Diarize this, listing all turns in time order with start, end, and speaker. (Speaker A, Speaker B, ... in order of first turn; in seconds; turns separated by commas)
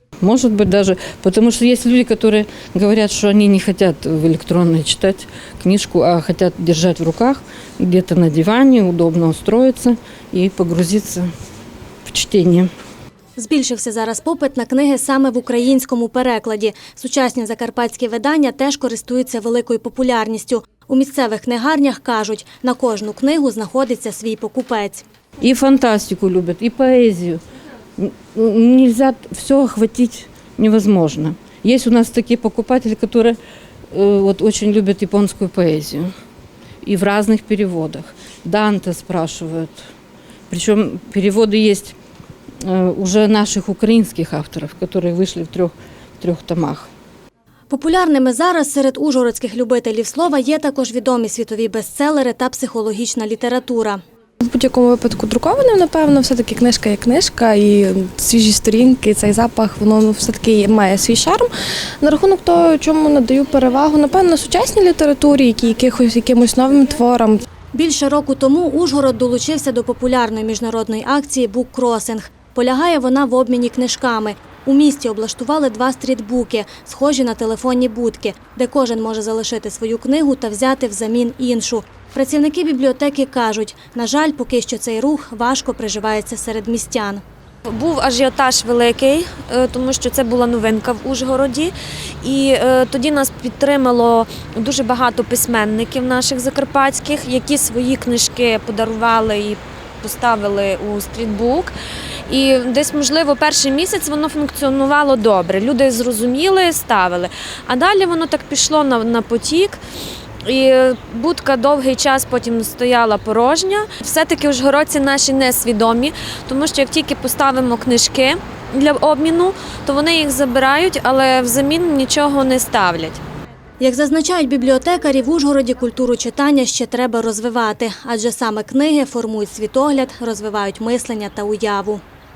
Speaker A: 0.2-11.3, Speaker A: 12.1-12.7, Speaker B: 13.4-25.0, Speaker A: 25.4-27.4, Speaker A: 28.0-33.4, Speaker A: 33.9-36.1, Speaker A: 36.8-39.8, Speaker A: 40.5-41.9, Speaker A: 42.6-46.9, Speaker B: 47.7-54.0, Speaker C: 54.5-61.5, Speaker C: 62.0-67.4, Speaker B: 67.7-87.2, Speaker D: 87.7-101.7, Speaker D: 102.3-109.8, Speaker D: 110.4-123.2, Speaker B: 123.8-132.0